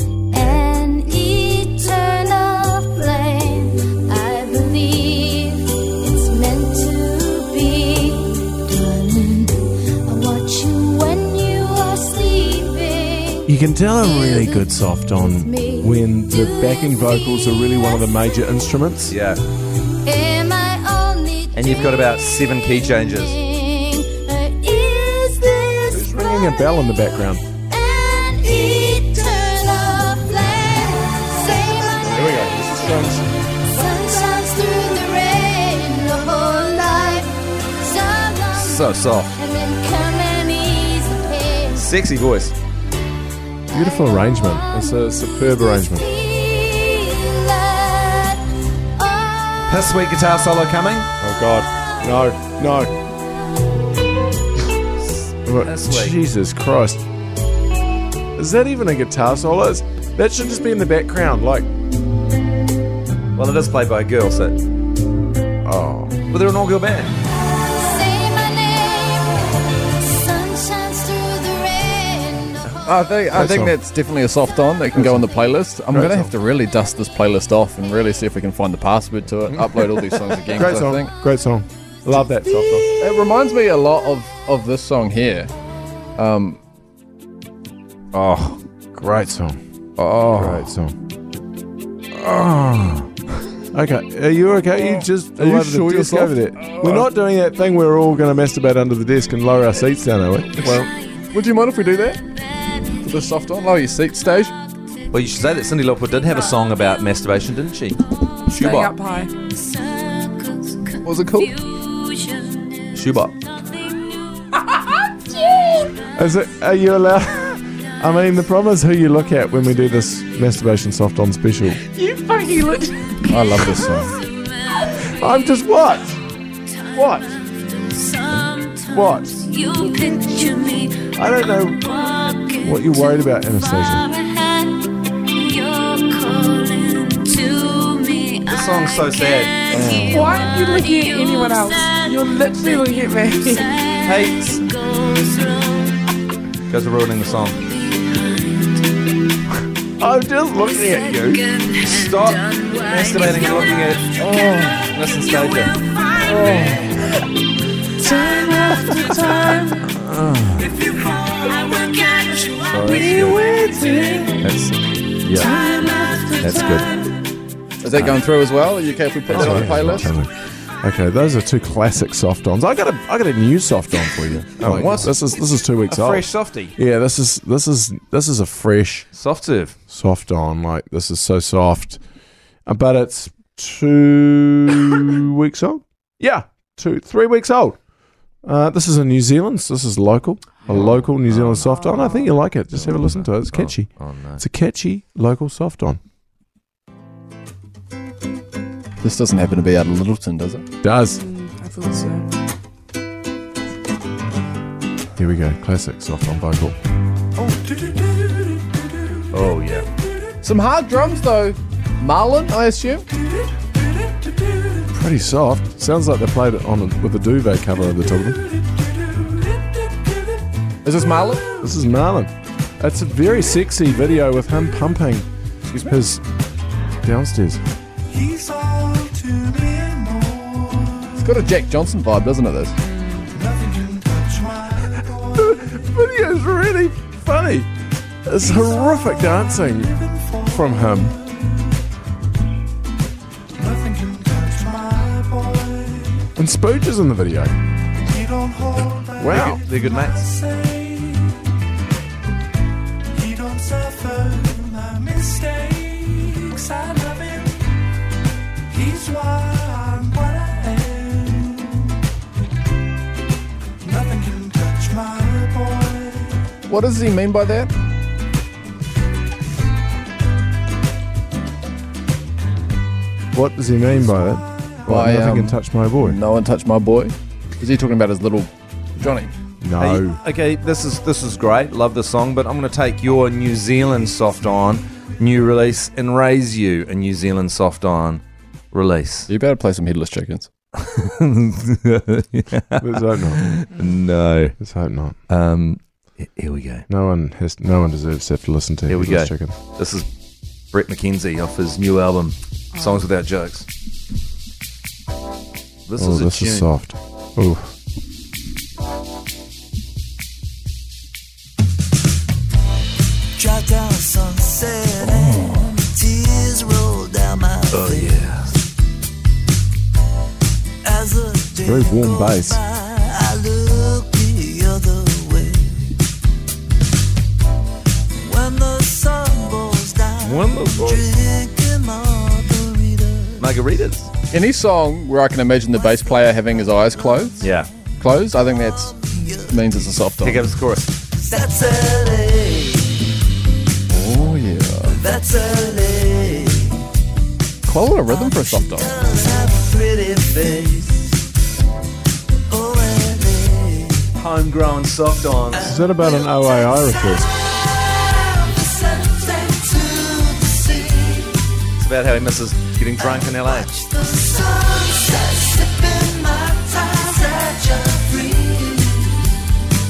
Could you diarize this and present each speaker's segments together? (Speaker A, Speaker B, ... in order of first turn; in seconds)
Speaker A: 0.3-13.5, 14.0-14.7, 15.3-16.9, 20.0-21.8, 23.4-26.6, 27.7-33.0, 33.6-41.8, 45.8-49.7, 67.7-72.7, 109.6-110.7, 111.8-112.8, 113.7-114.4, 127.5-128.7, 129.5-131.0, 134.1-134.8, 135.4-138.4, 140.4-141.3, 144.7-145.8, 152.3-153.4, 155.8-156.2, 161.7-162.2
Speaker B: 13.4-19.1, 25.9-27.4, 32.0-33.2, 43.7-46.1, 51.2-52.9, 55.4-57.0, 58.4-61.7, 65.6-66.2, 73.3-73.8, 75.0-75.2, 75.9-76.3, 80.5-82.9, 89.0-89.6, 90.3-90.9, 93.7-100.9, 116.1-121.8, 125.0-126.2, 126.9-127.3, 128.3-129.5, 131.1-134.1, 150.0-151.5, 156.2-156.8, 158.2-160.7, 162.7-164.5, 167.9-168.2, 169.3-170.3, 170.8-179.1, 179.9-182.0, 182.7-187.8, 188.4-196.0, 200.8-201.2, 205.2-206.8, 214.9-218.4, 221.6-225.3, 225.8-226.2, 227.0-227.6, 228.4-231.0, 234.7-237.7, 238.2-241.2, 243.9-245.1, 246.2-247.5, 248.5-249.8, 250.5-251.1, 253.3-257.5, 258.7-261.6, 263.9-266.2, 273.3-276.2, 279.6-280.2, 292.8-293.5, 294.6-295.2, 296.9-299.5, 306.0-307.7, 321.6-322.6, 355.6-357.3
Speaker C: 19.1-19.4, 21.5-23.4, 38.5-39.3, 41.7-42.5, 49.7-51.1, 55.6-56.1, 63.4-64.6, 66.3-67.1, 88.1-88.6, 90.0-90.7, 92.2-93.0, 105.1-108.0, 112.9-113.3, 138.5-139.8, 144.0-144.5, 146.7-147.8, 151.8-154.1, 154.9-155.8, 162.7-163.4, 164.4-165.5, 166.4-166.9, 169.3-170.1, 174.6-175.3, 175.9-176.7, 179.1-179.7, 190.7-191.8, 192.7-194.4, 209.3-209.8, 249.2-250.3, 279.8-289.3, 290.9-294.6, 295.3-296.8, 298.9-300.1, 300.7-303.6, 305.9-306.7, 317.7-318.5, 330.2-331.1, 333.4-334.1, 337.4-337.7, 340.2-341.0, 350.2-350.8, 354.1-355.7, 361.8-363.8
Speaker D: 72.8-81.1, 83.0-85.5, 86.2-86.6, 94.7-97.1, 100.6-102.2, 103.0-104.5, 108.5-108.9, 111.0-111.6, 123.3-124.1, 139.7-140.3, 154.2-154.9, 156.3-156.9, 167.8-170.1, 174.6-175.1, 190.7-191.0, 199.0-200.6, 210.4-213.0, 220.8-221.5, 225.7-226.0, 231.2-232.7, 266.7-267.7, 274.9-279.3, 289.3-290.5, 315.0-315.7, 334.3-340.5, 343.9-345.0, 347.6-348.9
Speaker E: 108.5-109.3, 114.8-115.9, 121.8-123.5, 140.1-143.7, 165.4-166.1, 191.7-192.3, 201.2-202.3, 233.0-233.3, 302.8-303.1
Speaker F: 144.2-144.5, 148.1-148.6, 313.4-318.1, 320.9-325.9, 328.1-333.4, 341.3-342.8, 345.2-346.4, 348.7-350.4, 352.5-354.1, 357.1-361.4, 363.3-369.1